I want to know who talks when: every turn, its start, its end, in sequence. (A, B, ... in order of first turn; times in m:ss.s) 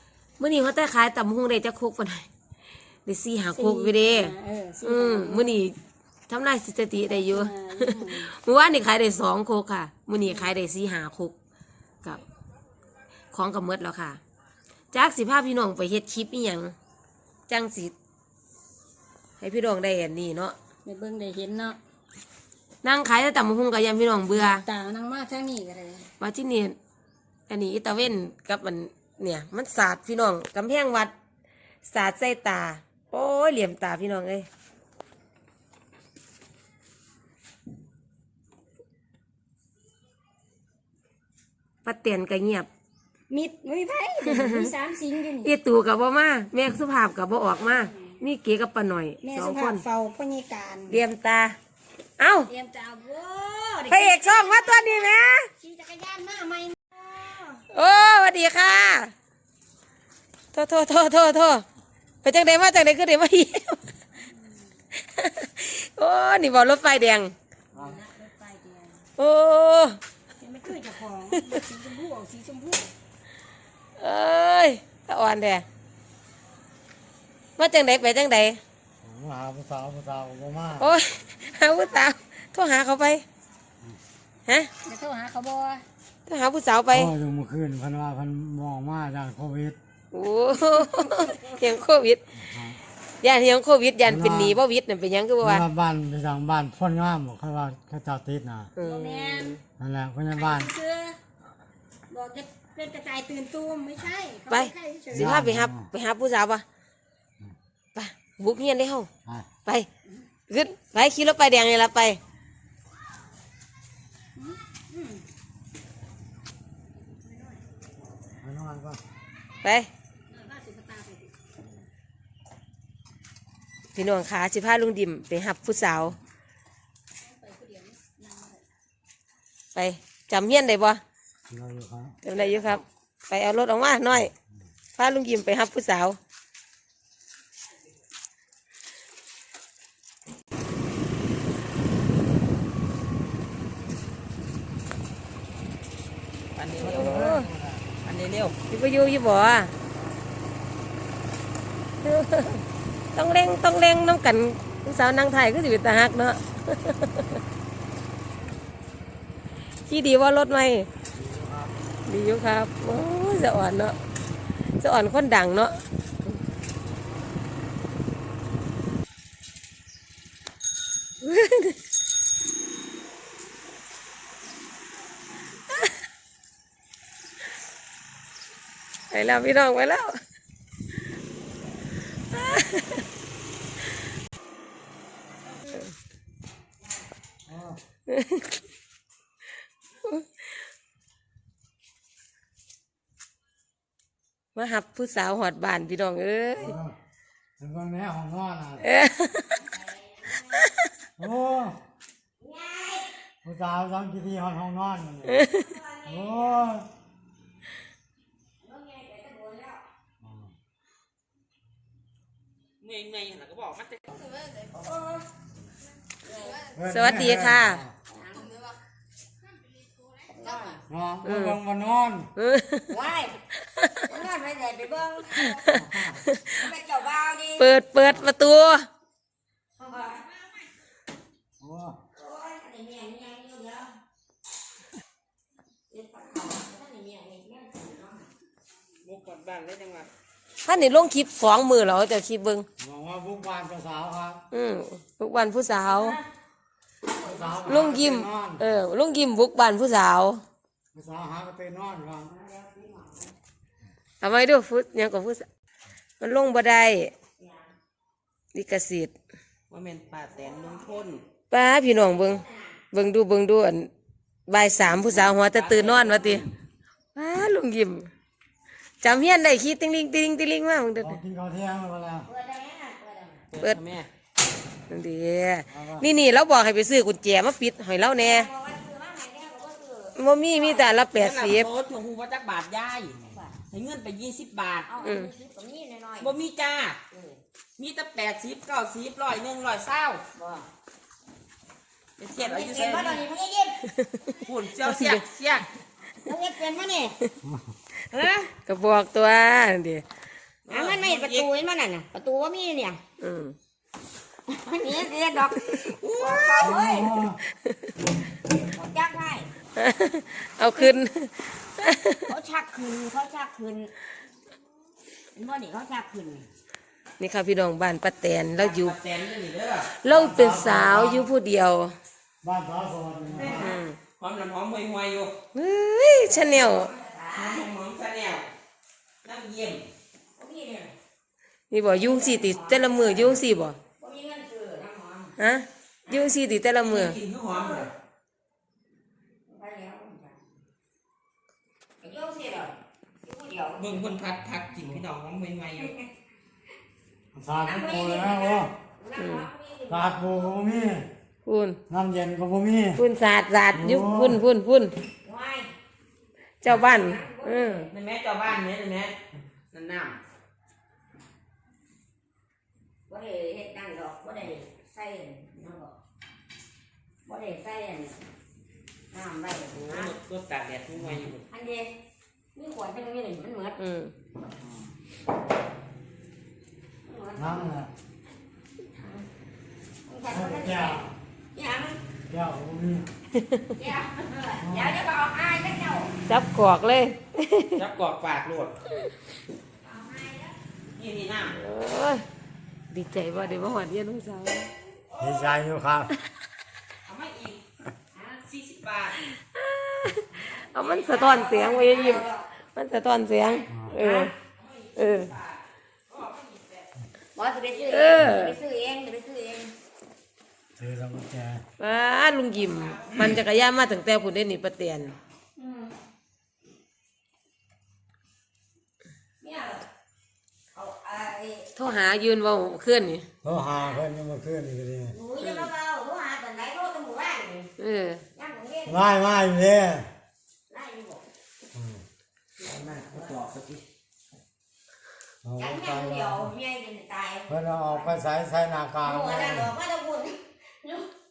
0:00.4-0:02.3 A
0:03.0-0:05.7 A
0:03.5-0:05.6 B
0:06.3-0:11.3 A
0:06.9-0:08.3 B
0:10.2-0:10.5 B
0:13.3-0:14.2 A
0:14.9-0:16.7 A
0:17.5-0:17.9 A
0:19.4-0:20.6 A
0:20.8-0:21.8 B
0:22.8-0:24.6 A
0:24.3-0:26.1 B
0:26.2-0:26.8 A
0:27.5-0:31.1 A
0:31.8-0:34.5 A
0:41.8-0:42.7 A
0:43.3-0:45.5 B
0:44.2-0:44.7 A
0:45.4-0:49.8 A
0:47.7-0:48.1 B
0:49.2-0:51.0 B
0:50.9-0:51.6 A
0:52.2-0:52.5 A
0:52.5-0:55.0 B
0:53.3-0:53.9 C
0:53.9-0:55.5 A
0:55.6-0:56.8 B
0:57.0-0:57.6 C
0:57.7-0:59.1 A
1:00.5-1:01.6 A
1:02.2-1:03.9 A
1:04.3-1:04.6 B
1:04.9-1:07.3 A
1:07.7-1:09.0 B
1:09.2-1:10.0 A
1:10.4-1:12.9 B
1:11.3-1:11.6 A
1:14.0-1:15.6 A
1:17.6-1:18.6 A
1:19.0-1:20.9 D
1:20.8-1:23.2 A
1:24.8-1:25.8 B
1:26.2-1:27.1 A
1:26.9-1:29.8 D
1:30.1-1:32.2 A
1:32.4-1:32.8 D
1:33.2-1:35.6 A
1:34.0-1:34.6 D
1:35.4-1:38.7 D
1:38.8-1:39.6 A
1:38.8-1:39.6 B
1:39.8-1:40.7 D
1:40.3-1:41.2 B
1:42.1-1:45.3 B
1:44.5-1:46.6 A
1:45.1-1:45.9 D
1:47.9-1:49.1 A
1:50.5-1:52.2 A
1:54.4-1:55.2 B
1:57.2-1:57.6 B
1:58.4-1:59.0 D
1:59.6-1:59.9 A
2:00.3-2:01.3 B
2:03.9-2:06.2 A
2:07.2-2:08.6 B
2:09.7-2:11.0 A
2:11.5-2:12.2 D
2:12.2-2:14.3 A
2:12.4-2:12.8 E
2:15.0-2:16.2 A
2:26.6-2:27.1 E
2:26.8-2:27.8 D
2:26.8-2:27.5 A
2:28.0-2:28.6 E
2:28.7-2:29.7 A
2:32.0-2:37.4 A
2:39.8-2:40.9 A
2:41.1-2:41.7 D
2:42.0-2:44.0 A
2:44.8-2:46.3 A
2:51.2-2:51.8 A
2:59.1-3:00.2 A
3:02.3-3:03.0 A
3:07.5-3:07.8 D
3:08.1-3:08.4 A
3:14.5-3:16.8 A
3:16.6-3:17.0 D
3:17.6-3:18.9 D
3:18.8-3:19.6 A
3:19.6-3:20.6 C
3:21.2-3:21.8 D
3:22.4-3:23.1 C
3:23.4-3:25.4 D
3:25.3-3:25.6 A
3:25.5-3:26.7 C
3:26.0-3:26.9 D
3:28.6-3:29.8 C
3:30.2-3:30.5 D
3:32.8-3:34.1 E
3:34.7-3:35.2 C
3:36.2-3:36.7 C
3:36.7-3:37.9 D
3:36.9-3:37.8 A
3:38.1-3:38.5 C
3:40.3-3:40.8 C
3:40.9-3:42.3 D
3:41.2-3:41.6 A
3:42.4-3:42.9 A
3:42.9-3:43.4 C
3:43.8-3:44.0 A
3:44.1-3:47.7 C
3:45.4-3:45.8 A
3:47.6-3:48.9 A
3:49.8-3:50.5 C
3:51.6-3:52.0 D
3:52.2-3:53.9 C
3:55.9-3:58.3 C
3:59.0-4:00.1 E
4:00.6-4:02.7 A
4:02.8-4:04.4 D
4:04.5-4:06.2 A
4:05.7-4:06.2 C
4:07.0-4:07.9 C
4:07.2-4:08.6 D
4:07.6-4:10.4 A
4:10.9-4:12.3 D
4:12.2-4:13.3 C
4:14.2-4:15.4 A
4:16.2-4:17.1 A
4:17.4-4:17.7 C
4:18.5-4:19.1 A
4:19.7-4:21.2 E
4:20.3-4:20.9 C
4:21.5-4:23.9 A
4:22.2-4:22.8 C
4:24.5-4:26.4 A
4:25.0-4:26.5 E
4:27.2-4:28.1 A
4:29.0-4:31.2 A
4:31.0-4:32.3 D
4:32.2-4:33.5 C
4:33.5-4:34.1 E
4:34.9-4:38.5 A
4:35.7-4:36.1 D
4:38.2-4:41.0 C
4:40.2-4:41.7 A
4:41.1-4:44.9 E
4:43.2-4:43.6 C
4:44.9-4:46.4 C
4:45.0-4:45.3 A
4:46.2-4:47.0 E
4:47.1-4:47.4 C
4:47.8-4:50.2 E
4:50.3-4:50.7 C
4:52.2-4:53.2 E
4:52.4-4:53.8 C
4:53.8-4:55.2 A
4:54.3-4:55.7 E
4:56.2-4:57.2 C
4:57.4-4:57.7 D
4:58.1-4:58.5 C
4:58.6-5:00.0 A
5:00.6-5:01.5 E
5:00.7-5:03.0 C
5:03.2-5:03.6 A
5:04.5-5:07.3 C
5:05.7-5:06.9 E
5:06.6-5:07.4 D
5:08.4-5:09.5 C
5:09.8-5:12.2 A
5:12.3-5:13.9 C
5:15.3-5:16.5 C
5:17.2-5:19.0 A
5:18.6-5:19.9 E
5:20.0-5:21.9 A
5:20.0-5:21.3 D
5:22.4-5:23.7 D
5:23.3-5:25.3 E
5:23.5-5:24.0 A
5:25.5-5:26.9 A
5:26.2-5:27.7 C
5:27.3-5:28.5 E
5:29.2-5:29.8 E
5:30.4-5:30.9 C
5:31.7-5:33.8 A
5:31.8-5:33.4 C
5:34.0-5:35.3 C
5:35.4-5:37.2 A
5:36.8-5:37.9 E
5:37.5-5:37.9 C
5:39.5-5:40.4 C
5:42.0-5:44.1 C
5:43.8-5:45.9 E
5:45.8-5:46.1 C
5:47.3-5:48.7 D
5:47.6-5:50.6 C
5:49.2-5:49.5 A
5:49.9-5:51.1 D
5:51.4-5:51.8 A
5:51.9-5:53.0 D
5:53.0-5:54.9 A
5:53.7-5:54.4 D
5:55.2-5:55.7 C
5:56.6-5:57.9 A
5:56.7-5:57.9 C
5:57.9-5:59.2 E
5:59.7-6:00.2 E
6:03.1-6:06.0 C
6:07.2-6:08.2 C
6:09.1-6:10.1 C
6:09.7-6:11.4 E
6:11.5-6:11.9 C
6:12.5-6:13.8 C
6:13.8-6:14.1 A
6:17.0-6:17.8 C
6:17.4-6:17.9 D
6:19.0-6:19.2 C
6:20.0-6:22.0 C
6:20.3-6:21.1 D
6:22.3-6:23.1 D
6:23.4-6:23.6 A
6:23.8-6:26.1 C
6:24.6-6:24.9 D
6:26.2-6:27.8 A
6:27.8-6:28.8 E
6:29.8-6:30.6 C
6:30.9-6:31.6 E
6:31.5-6:32.2 A
6:32.9-6:34.7 A
6:35.1-6:35.6 E
6:35.2-6:36.1 D
6:37.0-6:37.6 E
6:38.1-6:38.4 C
6:38.4-6:39.2 E
6:39.2-6:44.3 A
6:40.8-6:42.5 C
6:43.7-6:44.0 D
6:43.9-6:44.3 C
6:44.5-6:46.9 E
6:45.0-6:45.3 A
6:47.3-6:49.7 C
6:47.9-6:48.6 A
6:50.8-6:51.6 D
6:51.8-6:55.2 A
6:52.6-6:53.4 E
6:55.6-6:55.9 C
6:59.4-6:59.8 C
7:00.7-7:01.7 C
7:01.8-7:03.2 A
7:03.4-7:05.2 D
7:05.1-7:07.7 C
7:05.4-7:05.7 A
7:07.8-7:08.2 A
7:08.3-7:09.1 C
7:08.9-7:10.1 D
7:10.7-7:11.2 C
7:11.7-7:12.0 D
7:12.6-7:13.8 E
7:12.7-7:13.3 C
7:15.4-7:16.5 D
7:15.6-7:18.1 C
7:17.5-7:19.7 D
7:19.0-7:21.1 C